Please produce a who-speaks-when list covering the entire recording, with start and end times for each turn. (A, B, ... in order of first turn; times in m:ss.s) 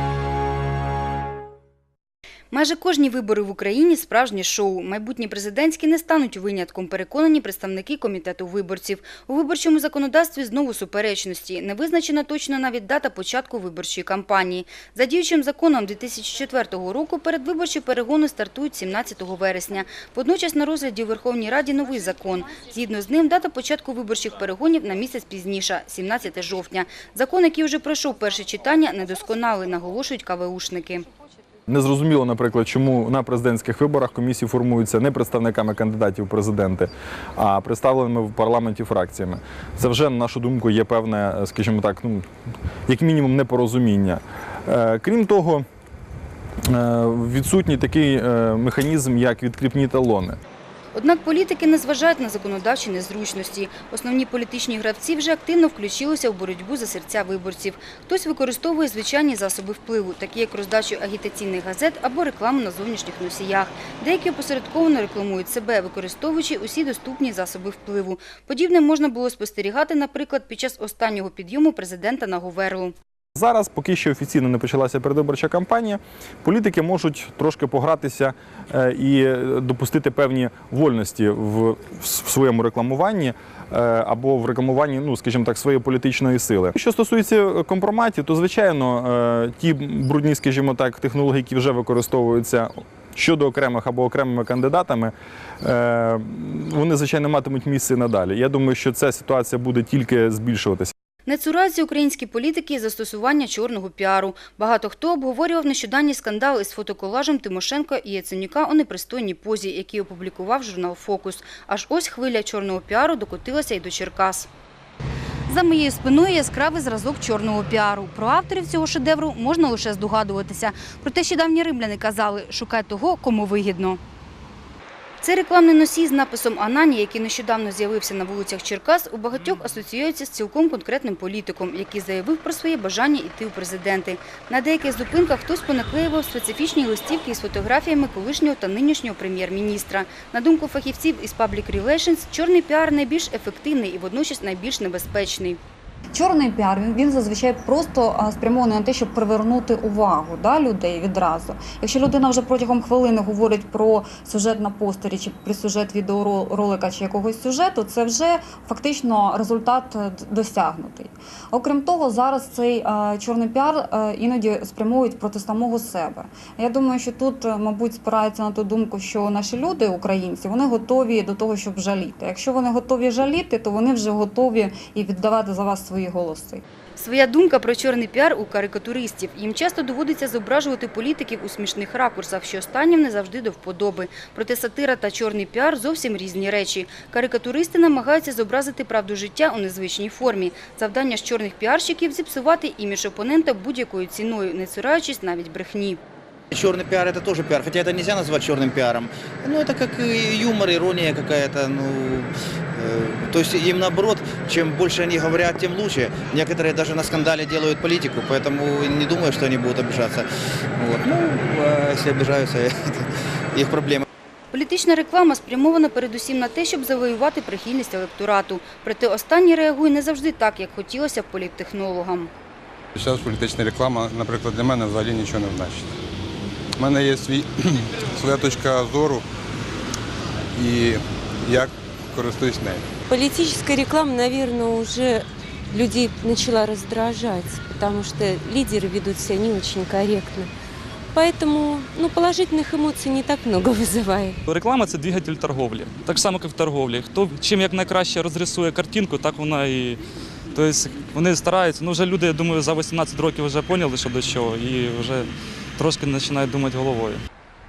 0:02.5-0:31.1 A
0:31.7-0:42.2 B
0:42.9-0:45.6 B
0:46.6-0:50.4 B
0:50.9-1:12.9 A
1:13.4-1:40.9 B
1:41.3-1:54.5 A
1:55.5-2:04.0 A
2:05.2-2:25.6 A
2:26.1-2:56.6 C
2:57.0-3:16.0 A
3:16.5-3:34.0 D
3:34.5-3:42.3 A
3:43.0-3:45.9 E
3:46.8-3:49.2 E
3:50.5-3:52.9 E
3:53.1-4:00.5 F
4:01.1-4:04.4 F
4:04.5-4:10.0 G
4:10.5-4:17.2 G